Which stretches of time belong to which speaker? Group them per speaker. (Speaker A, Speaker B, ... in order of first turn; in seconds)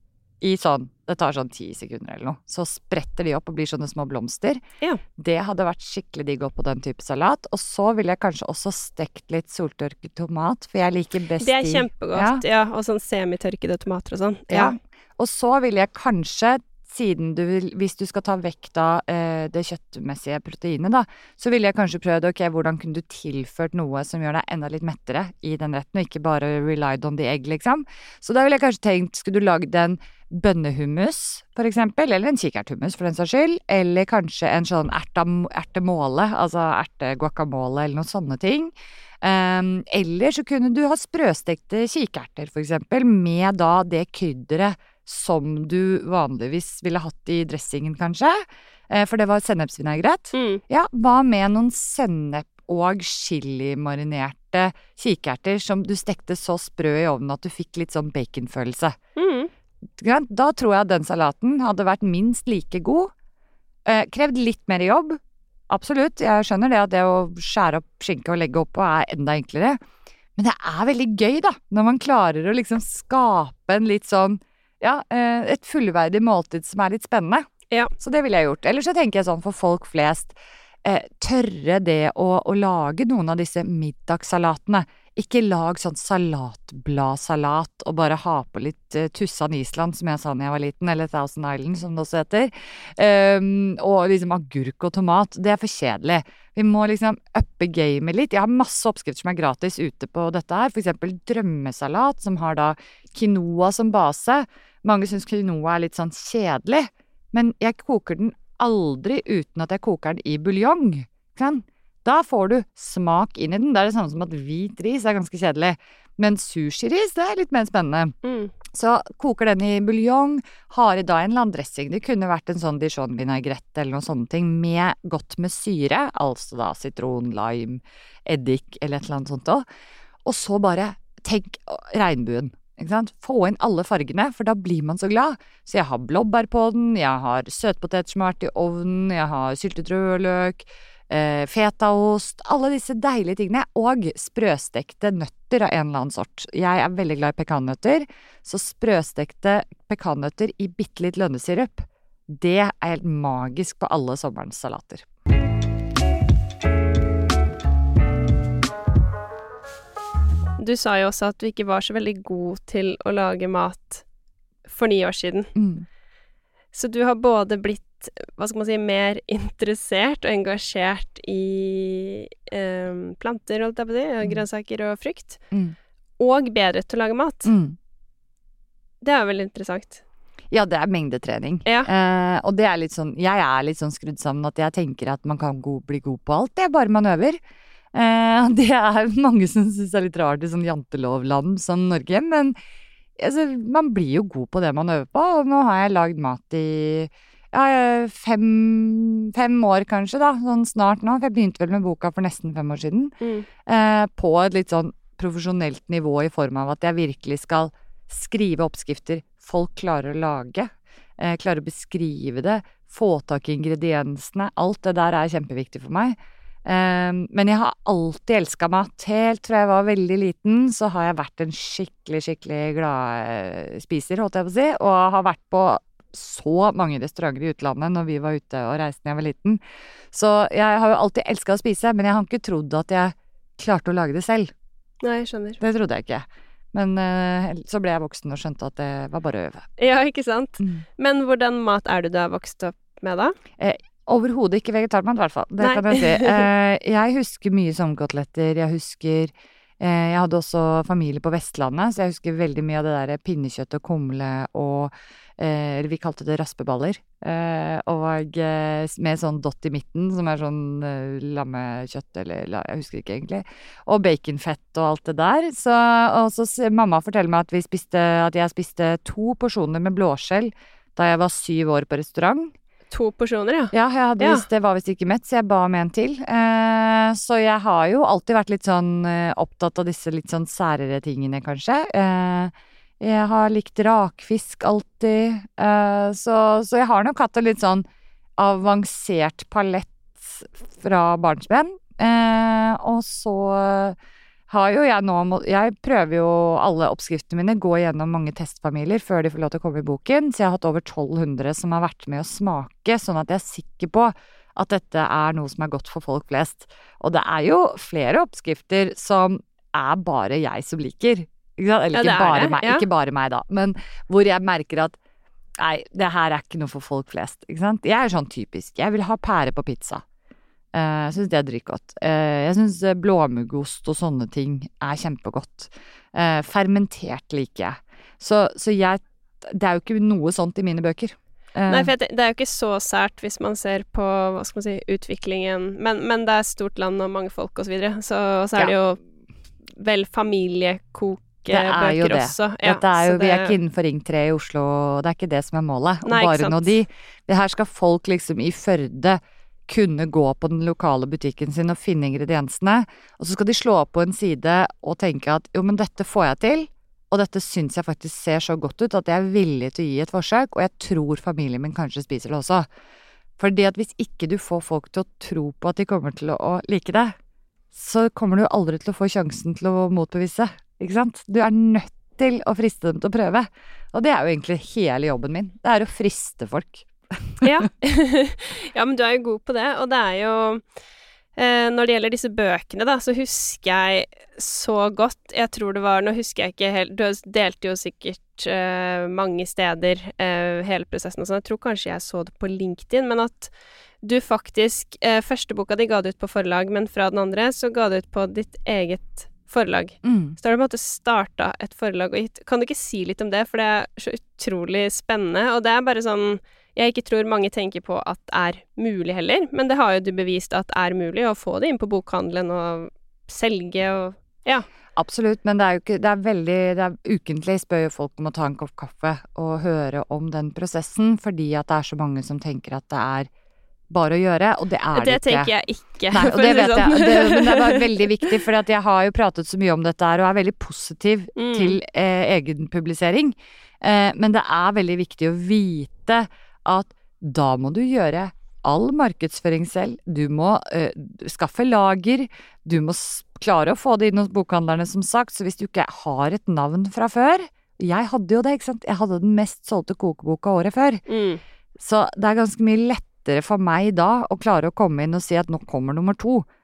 Speaker A: 0.4-4.6, 5.2-12.4, 14.5-59.0, 60.0-63.1, 63.9-65.2, 65.7-69.8, 70.4-118.2, 118.7-129.7, 130.2-155.1, 165.6-165.9, 177.4-177.8, 180.5-187.4, 187.9-192.6, 193.2-203.2, 203.7-229.6, 230.1-234.5, 235.6-239.7, 243.6-272.5, 273.7-287.9, 288.4-294.0, 294.5-315.0, 315.6-320.0, 320.7-331.9, 341.5-362.7, 363.4-367.1, 367.7-377.5, 400.0-400.4, 414.9-423.3, 423.9-425.5, 426.1-451.0, 451.8-456.5
Speaker B: 11.4-14.8, 50.3-50.6, 59.2-59.5, 118.2-118.5, 160.6-164.0, 164.7-165.5, 166.7-175.4, 176.2-177.5, 179.0-180.0, 203.2-203.5, 235.0-235.6, 239.8-243.4, 245.6-246.5, 272.9-274.5, 311.9-312.9, 331.7-339.0, 339.8-343.6, 346.1-346.8, 377.4-380.6, 381.4-414.7, 424.9-428.4, 431.4-431.8, 451.1-451.4